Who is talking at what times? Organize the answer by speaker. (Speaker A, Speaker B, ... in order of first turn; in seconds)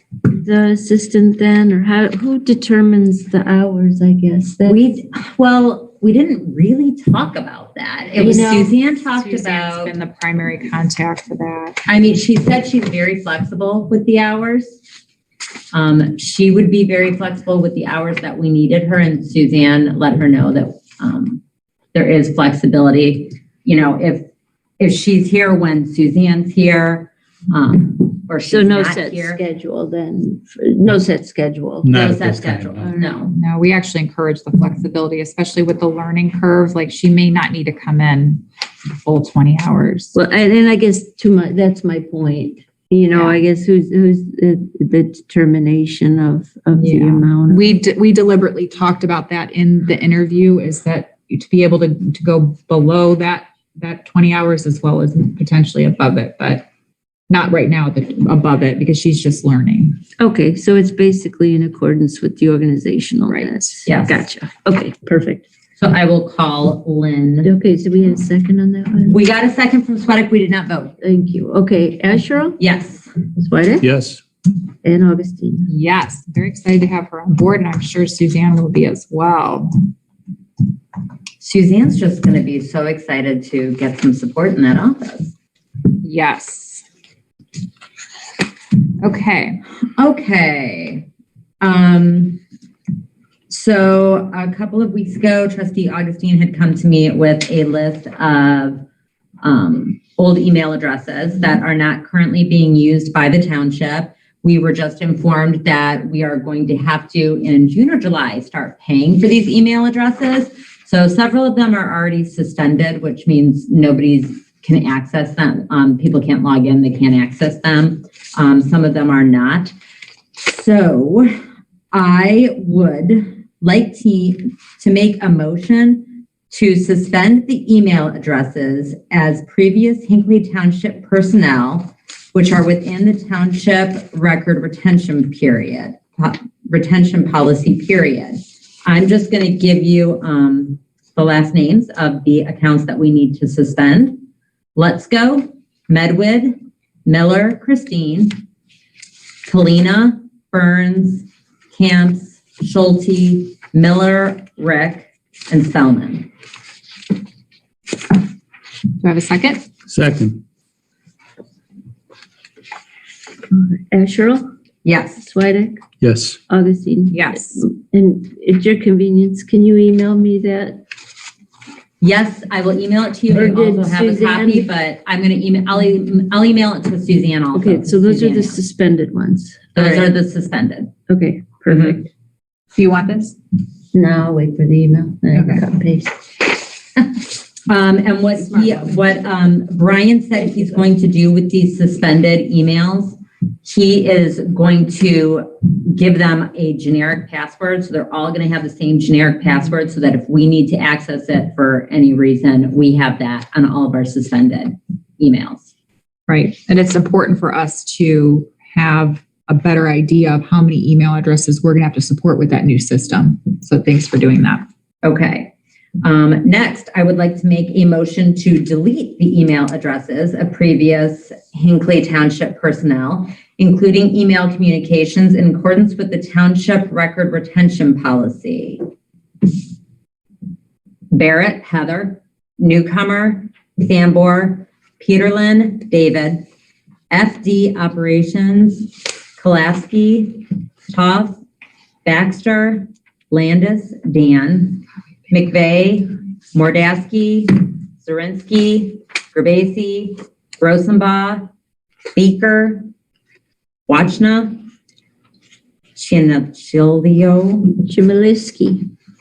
Speaker A: 0.3-4.8, 8.2-8.7, 28.5-31.9, 32.8-33.2, 40.1-47.6, 60.2-65.4, 67.4-69.2, 71.0-72.6, 73.3-73.9, 74.8-75.7, 163.5-164.4, 165.2-165.8, 166.5-170.8, 173.3-174.7, 177.5-180.1, 181.1-182.1, 183.9-186.2, 257.8-258.8
Speaker B: 4.7-9.9, 11.9-14.8, 15.7-21.4, 21.9-24.3, 24.8-29.4, 31.9-33.3, 63.9-64.2, 65.8-67.5, 69.1-71.0, 72.6-73.1, 81.4-85.3, 90.0-91.0, 91.6-92.4, 93.5-98.8, 99.4-119.7, 120.4-121.3, 121.9-144.2, 144.8-148.4, 149.5-156.3, 164.8-165.2, 172.0-178.6, 179.8-180.9, 181.7-182.0, 187.7-205.7, 215.0-228.8, 231.1-236.5, 237.1-241.4, 242.1-251.5, 252.2-252.8, 253.9-254.6, 256.0-257.8
Speaker C: 9.1-11.8, 33.3-38.4, 39.0-40.1, 43.1-43.4, 46.8-56.7, 57.3-60.0, 63.3-63.6, 75.7-79.9, 86.0-86.8, 89.0-89.6, 159.0-159.7, 167.1-167.6, 182.8-183.4, 185.3-185.6, 188.5-188.9, 206.3-214.7
Speaker D: 31.8-32.8, 73.8-74.2, 159.9-160.4, 166.0-166.4